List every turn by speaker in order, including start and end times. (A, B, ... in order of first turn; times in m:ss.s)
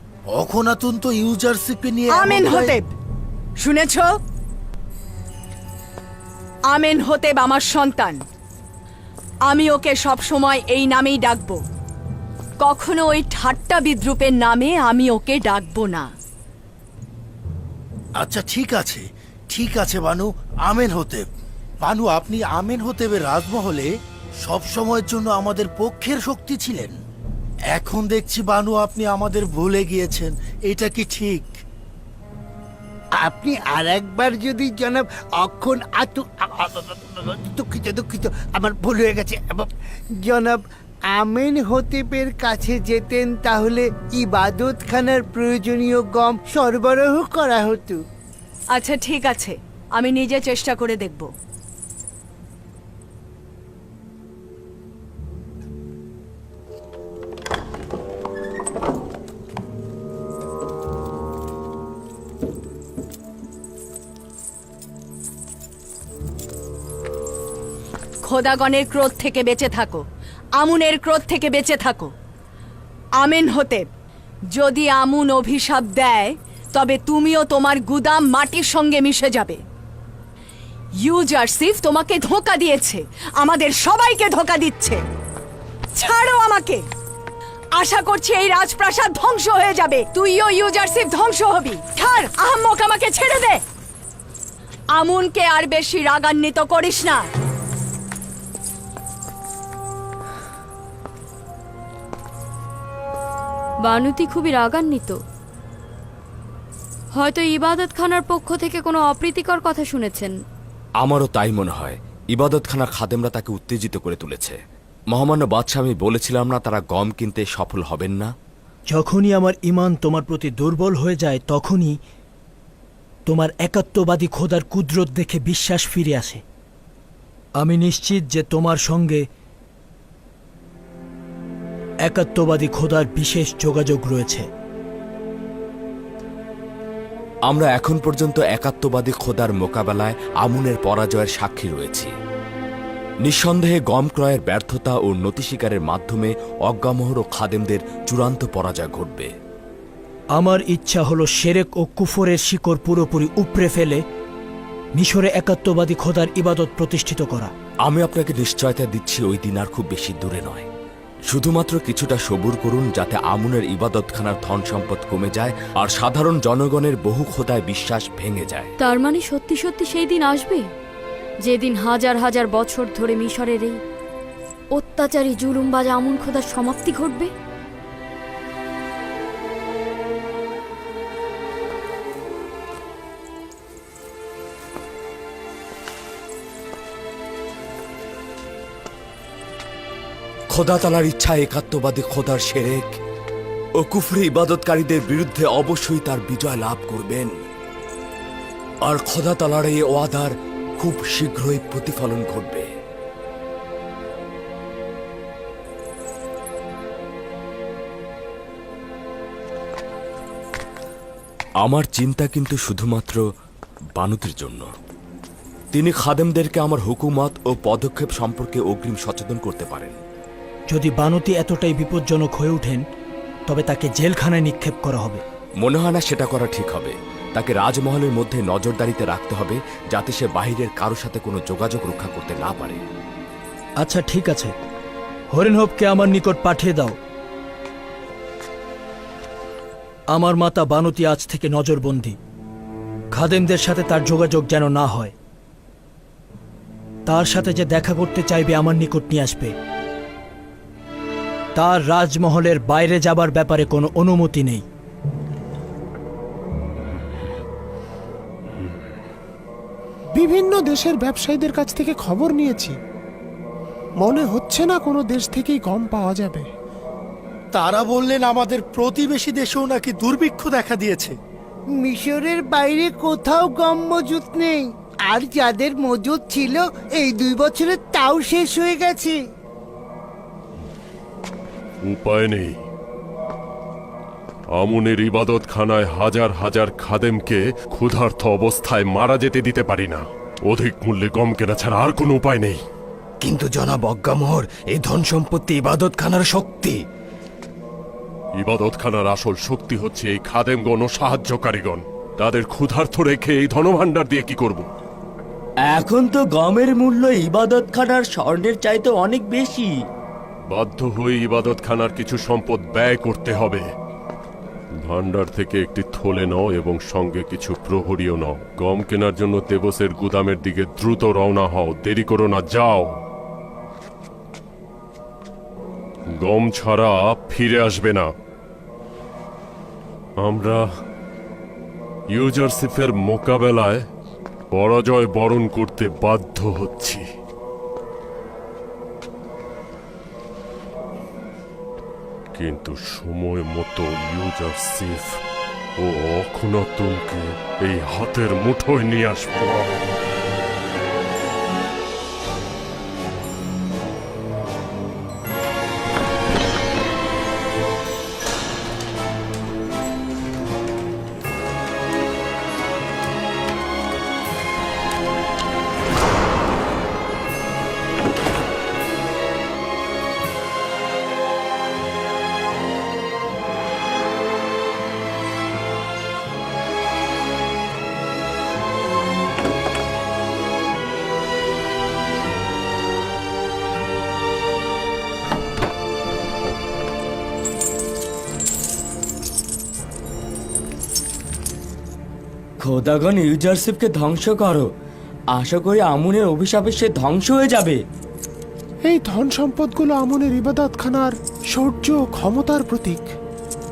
0:00.3-0:02.8 A
0:02.1-0:02.9 B
0:03.6-0:04.1 B
0:06.7-0:08.2 B
0:09.5-0:11.6 B
0:12.6-0:16.1 B
0:18.2-0:21.2 A
0:21.8-0:23.9 A
0:24.4-0:27.0 A
0:27.7-0:31.5 A
0:33.2-0:39.7 C
0:40.2-0:40.6 C
0:41.1-0:48.0 C
0:48.7-0:51.3 B
1:08.2-1:10.0 B
1:10.6-1:12.1 B
1:13.2-1:13.9 B
1:14.6-1:19.6 B
1:21.0-1:25.0 B
1:26.0-1:26.8 B
1:27.8-1:33.6 B
1:35.0-1:37.3 B
1:43.8-1:45.2 D
1:47.1-1:50.4 D
1:51.0-1:54.6 E
1:55.1-1:58.3 E
1:58.9-2:02.0 F
2:03.3-2:06.4 F
2:07.6-2:09.2 F
2:12.1-2:14.5 F
2:17.4-2:22.1 E
2:23.2-2:29.3 E
2:30.4-2:34.0 F
2:35.0-2:37.5 F
2:37.8-2:40.7 E
2:41.3-2:48.7 E
2:48.8-2:50.7 D
2:51.4-2:53.8 D
2:54.7-2:57.3 D
3:10.5-3:13.0 E
3:13.8-3:17.4 E
3:18.8-3:22.7 E
3:31.6-3:33.2 E
3:34.0-3:34.7 E
3:35.7-3:40.0 E
3:40.7-3:42.8 F
3:43.5-3:45.2 F
3:45.6-3:52.8 E
3:53.8-3:54.5 F
3:55.3-3:57.0 F
4:00.1-4:02.2 F
4:03.1-4:05.1 F
4:07.1-4:09.6 F
4:11.6-4:14.6 F
4:27.5-4:31.2 A
4:31.8-4:39.2 C
4:41.8-4:42.6 G
4:44.6-4:52.6 G
4:53.2-4:56.8 H
4:58.4-5:04.7 G
5:05.7-5:09.7 E
5:10.5-5:13.6 G
5:14.8-5:23.0 G
5:26.2-5:28.1 G
5:30.2-5:30.7 G
5:32.1-5:33.8 G
5:34.5-5:37.0 G
5:42.4-5:45.2 G
5:45.8-5:49.7 G
6:32.6-6:34.6 E
6:35.3-6:37.8 E
6:38.8-6:43.1 I